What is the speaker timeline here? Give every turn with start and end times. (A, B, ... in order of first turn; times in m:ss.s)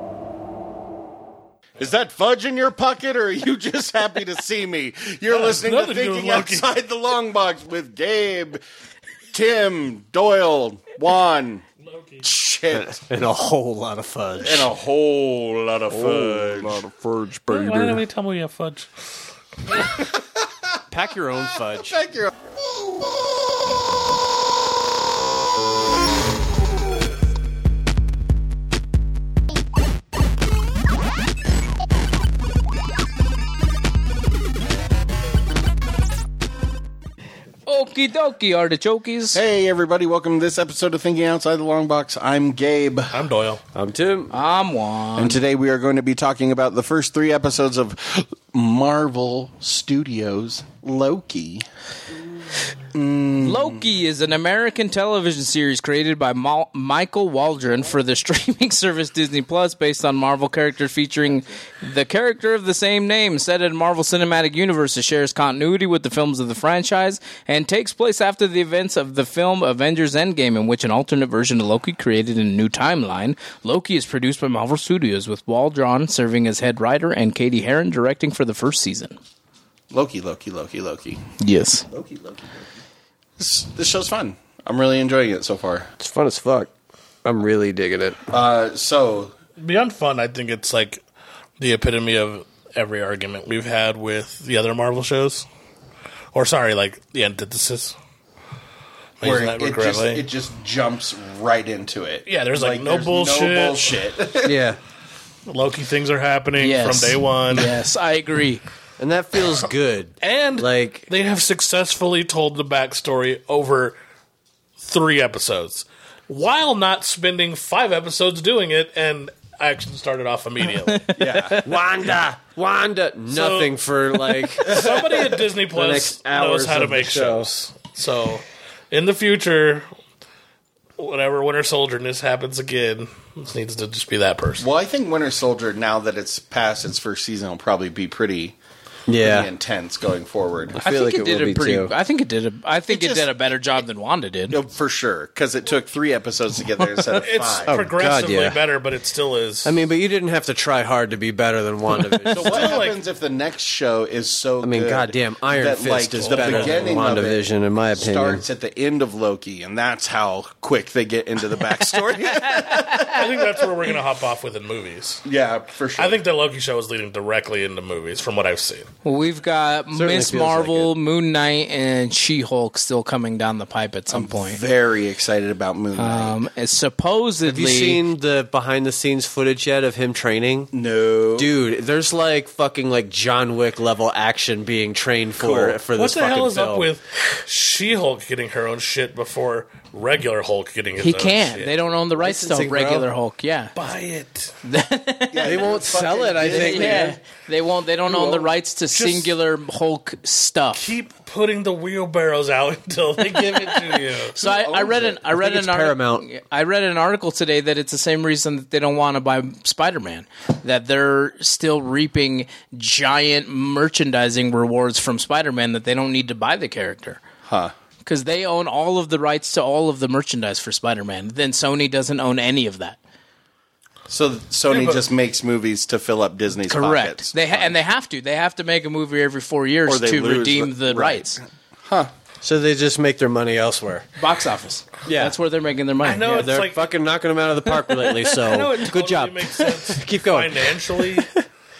0:01.8-0:08.6 A
0:05.3-0:06.7 B
0:09.3-0:11.6 A
0:11.8-0:12.3 B
0:12.2-0:13.0 A
0:12.7-0:14.7 C
0:14.4-0:17.8 A
0:15.9-0:18.0 C
0:17.5-0:18.9 B
0:19.7-0:20.8 A
0:20.9-0:22.0 C
0:21.3-0:23.1 A
0:37.6-0:39.4 D
0:39.3-0:43.2 A
0:43.1-0:43.6 B
0:43.7-0:44.3 C
0:44.3-0:45.4 D
0:45.2-0:51.6 A
0:52.9-0:53.8 A
0:53.4-1:19.2 D
1:19.9-1:21.2 A
1:21.4-1:21.9 D
1:21.9-1:22.5 A
1:23.4-1:25.9 A
1:26.0-1:26.7 C
1:27.2-1:28.2 C
1:28.3-1:29.3 A
1:29.6-1:31.0 B
1:31.6-1:35.4 B
1:36.3-1:38.0 B
1:39.2-1:40.2 B
1:39.2-1:44.6 A
1:42.2-1:43.9 B
1:44.4-1:44.8 C
1:45.4-1:47.8 B
1:46.6-1:48.6 D
1:49.0-1:51.1 C
1:50.2-1:53.9 B
1:54.8-2:01.1 B
2:00.9-2:01.6 D
2:01.2-2:01.8 A
2:01.6-2:07.5 C
2:03.3-2:09.9 B
2:04.7-2:05.0 A
2:11.0-2:14.7 B
2:14.6-2:18.6 A
2:19.1-2:19.5 C
2:19.2-2:20.8 A
2:20.7-2:21.9 C
2:20.8-2:24.6 D
2:22.9-2:23.3 A
2:24.5-2:27.8 A
2:27.1-2:29.7 B
2:27.6-2:28.6 C
2:29.6-2:32.8 C
2:32.0-2:32.4 D
2:32.3-2:37.4 A
2:32.4-2:33.0 B
2:34.6-2:38.4 C
2:36.2-2:37.1 B
2:38.0-2:43.7 A
2:42.1-2:43.0 D
2:43.1-2:45.2 B
2:45.2-2:46.2 A
2:46.0-2:48.9 B
2:49.0-2:54.6 D
2:49.9-2:50.9 C
2:54.1-2:56.4 A
2:55.9-2:58.0 D
2:57.4-3:00.7 C
3:00.7-3:01.5 A
3:01.4-3:06.9 C
3:05.4-3:05.8 A
3:05.9-3:11.7 B
3:11.0-3:13.7 D
3:12.2-3:13.1 C
3:13.7-3:14.5 B
3:14.6-3:15.7 D
3:15.3-3:17.2 A
3:15.4-3:17.2 C
3:16.4-3:20.9 D
3:18.1-3:18.5 C
3:18.9-3:19.3 B
3:20.7-3:24.4 B
3:23.9-3:37.2 D
3:24.4-3:25.2 A
3:25.2-3:26.2 C
3:37.4-3:37.7 A
3:38.0-3:43.0 D
3:44.1-3:47.8 A
3:44.7-3:45.0 B
3:46.7-3:51.4 D
3:49.8-3:52.1 A
3:52.4-3:54.1 C
3:54.2-3:56.5 D
3:55.0-3:55.4 C
3:56.0-3:56.9 B
3:56.3-4:00.8 C
3:58.3-4:01.4 B